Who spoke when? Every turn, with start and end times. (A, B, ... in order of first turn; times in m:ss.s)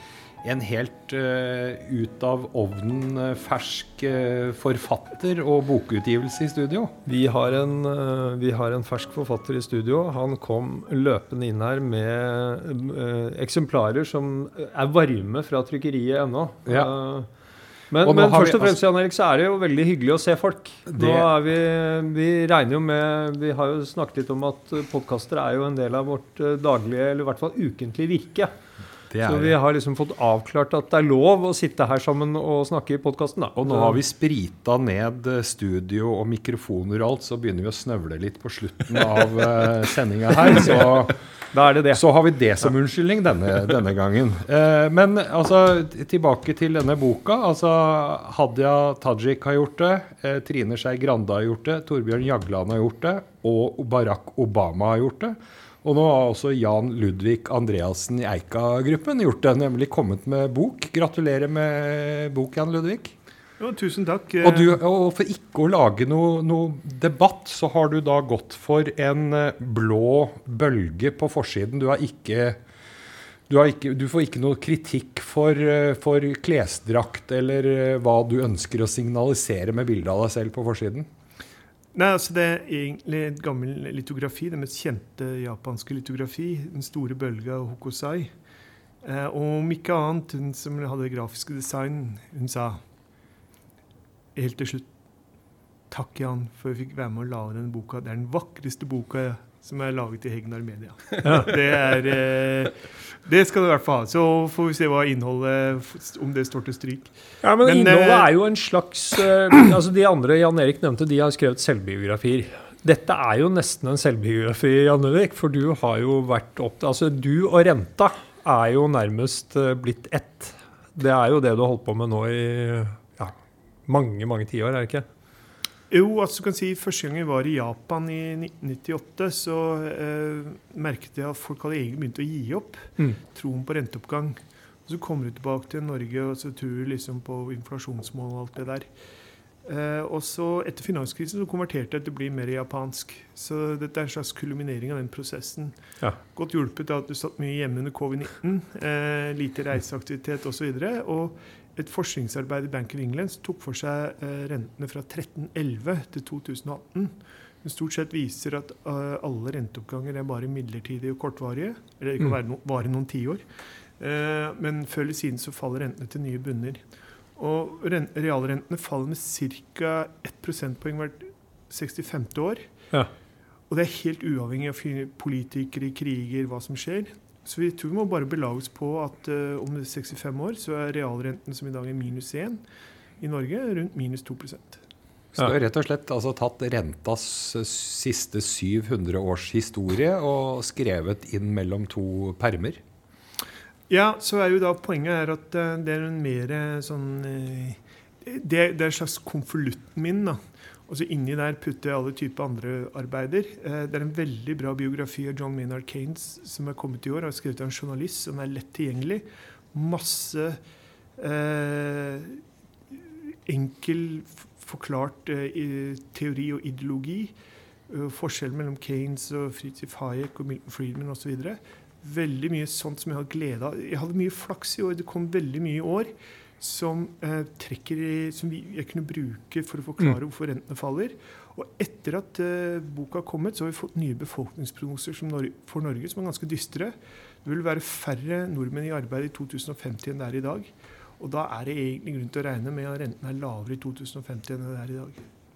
0:00.4-0:06.9 A
0:07.1-0:17.3 B
0:16.7-0:16.9 A
0:17.9-0:28.5 B
0:18.0-0:18.8 A
0:20.9-0:21.3 A
0:29.1-0:29.6 A
0:29.2-0:34.0 B
0:33.6-0:41.2 A
0:41.5-0:42.0 B
0:41.9-1:03.2 A
1:03.6-1:04.8 C
1:04.4-1:12.6 A
1:13.5-1:21.1 A
1:21.9-1:28.3 C
1:29.0-1:32.8 C
1:34.4-1:34.9 C
1:35.9-1:48.3 C
1:41.2-1:41.6 B
1:47.4-2:03.3 B
2:03.9-2:05.1 B
2:05.9-2:18.9 C
2:19.6-2:25.8 C
2:26.3-2:43.4 C
2:44.0-2:46.8 C
2:47.4-2:52.7 C
2:53.7-3:02.6 C
3:03.2-3:04.8 C
3:05.4-3:12.8 A
3:13.9-3:30.6 C
3:31.2-3:32.4 C
3:33.5-3:37.3 C
3:37.9-4:05.2 C